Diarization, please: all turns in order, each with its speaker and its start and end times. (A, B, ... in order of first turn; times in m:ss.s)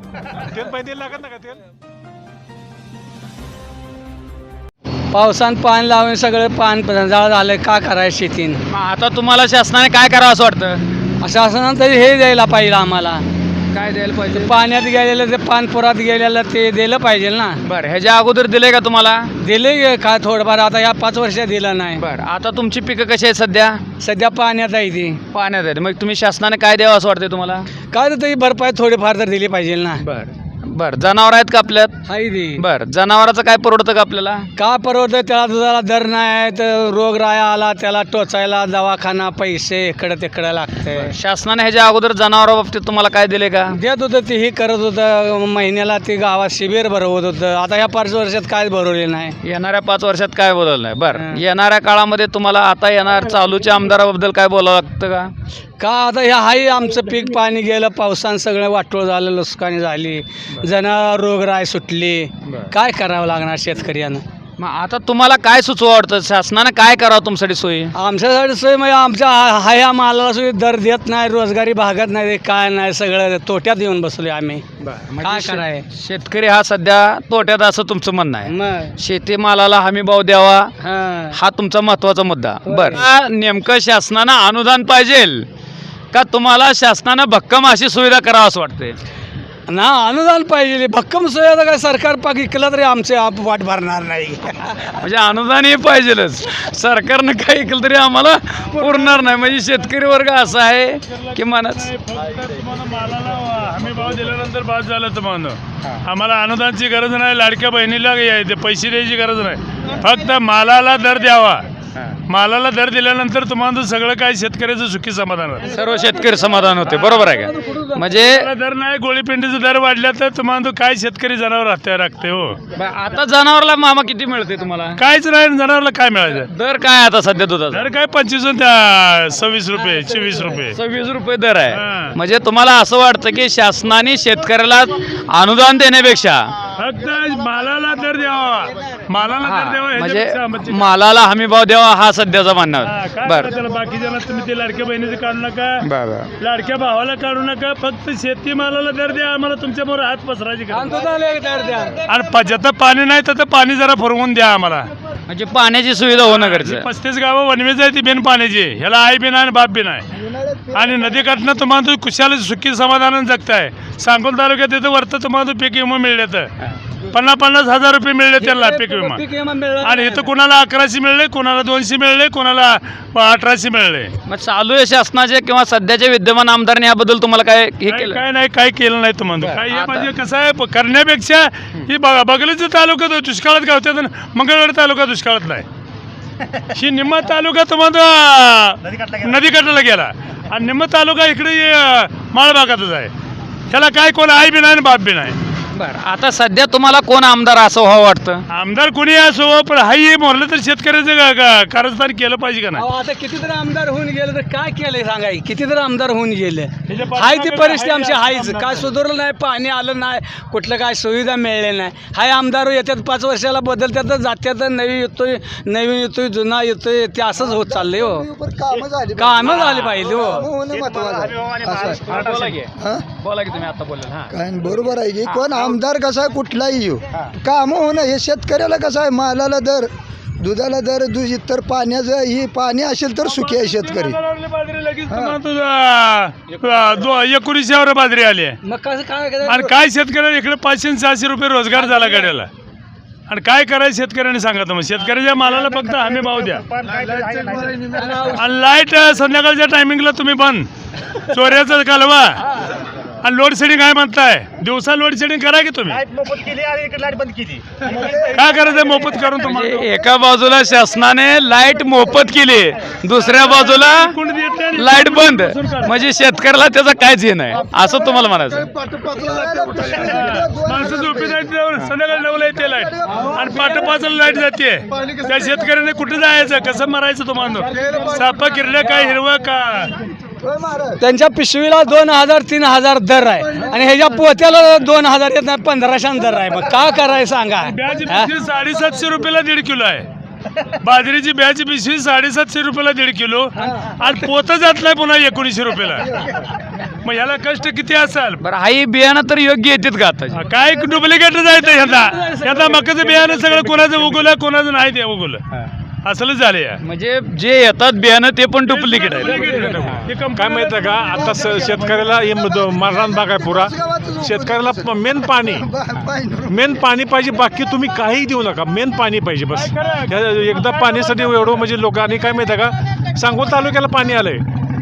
0:00.4-0:01.6 A
0:05.1-0:08.6 B
0:08.7-0:10.8 C
0:11.2-0:13.2 B
0:13.7-0:14.5 C
0:14.3-0:17.6 B
0:17.6-0:19.3 C
0:19.4-0:22.0 B
0:22.0-0:23.8 C
0:24.0-0:25.2 B
0:25.3-0:27.6 C
0:27.9-0:30.0 B
0:30.0-0:32.0 C
0:32.1-0:32.6 B
0:32.6-0:34.4 C
0:34.6-0:41.1 B
0:41.0-0:43.8 C
0:43.7-0:49.4 B
0:49.4-0:55.3 C
0:51.1-0:51.4 B
0:55.8-1:04.2 B
1:04.6-1:07.9 C
1:07.9-1:14.6 B
1:14.8-1:20.7 C
1:15.2-1:15.8 B
1:18.4-1:19.0 B
1:20.8-1:21.4 B
1:21.3-1:25.4 C
1:22.7-1:23.0 B
1:26.1-1:29.0 C
1:29.7-1:34.6 B
1:35.0-1:41.9 C
1:41.4-1:51.6 D
1:52.3-1:55.8 D
1:55.7-1:58.5 C
1:57.3-1:58.0 B
1:58.2-2:02.6 D
2:02.8-2:05.0 C
2:05.0-2:06.5 D
2:06.5-2:07.9 C
2:07.7-2:10.8 D
2:10.7-2:16.5 C
2:11.7-2:12.2 D
2:16.8-2:20.9 D
2:19.4-2:23.5 C
2:22.8-2:25.9 D
2:25.8-2:26.3 C
2:26.4-2:30.9 D
2:30.7-2:32.0 B
2:32.1-2:34.9 D
2:35.3-2:36.9 C
2:36.2-2:40.1 D
2:40.2-2:41.0 E
2:40.7-2:46.5 D
2:47.1-2:49.2 D
2:48.4-2:50.3 B
2:49.8-2:54.1 D
2:54.2-2:58.2 C
2:57.9-3:05.7 D
2:59.4-3:00.1 C
3:06.8-3:13.1 D
3:08.9-3:09.4 F
3:13.7-3:15.4 D
3:15.7-3:18.4 C
3:18.5-3:22.8 D
3:22.8-3:38.3 B
3:26.9-3:28.9 D
3:37.4-3:39.5 E
3:39.2-3:40.5 B
3:39.4-3:42.6 F
3:40.0-3:42.0 E
3:42.0-3:44.3 C
3:42.8-3:43.1 E
3:44.3-3:49.9 E
3:45.2-3:45.6 C
3:50.4-3:54.2 E
3:53.3-3:58.6 D
3:55.1-3:55.4 E
3:58.6-3:59.7 B
3:59.5-4:02.5 D
4:01.8-4:02.2 B
4:03.3-4:06.6 D
4:05.4-4:08.0 F
4:08.0-4:08.4 B
4:08.2-4:10.7 D
4:11.3-4:12.4 D
4:13.2-4:16.0 D
4:15.9-4:19.0 F
4:18.0-4:19.9 D
4:19.4-4:24.2 C
4:23.5-4:26.0 D
4:24.7-4:28.7 C
4:29.0-4:31.4 E
4:29.2-4:39.9 D
4:32.7-4:33.4 E
4:40.4-4:41.0 E
4:41.0-4:48.3 B
4:47.6-4:50.1 D
4:50.8-4:56.3 D
4:53.6-4:53.9 B
4:57.0-4:58.4 D
4:58.4-5:00.4 C
5:00.3-5:05.4 D
5:01.6-5:04.2 B
5:06.0-5:06.8 D
5:06.8-5:09.5 C
5:08.7-5:11.0 D
5:09.2-5:15.6 A
5:12.3-5:16.5 E
5:16.5-5:24.4 A
5:19.5-5:21.5 D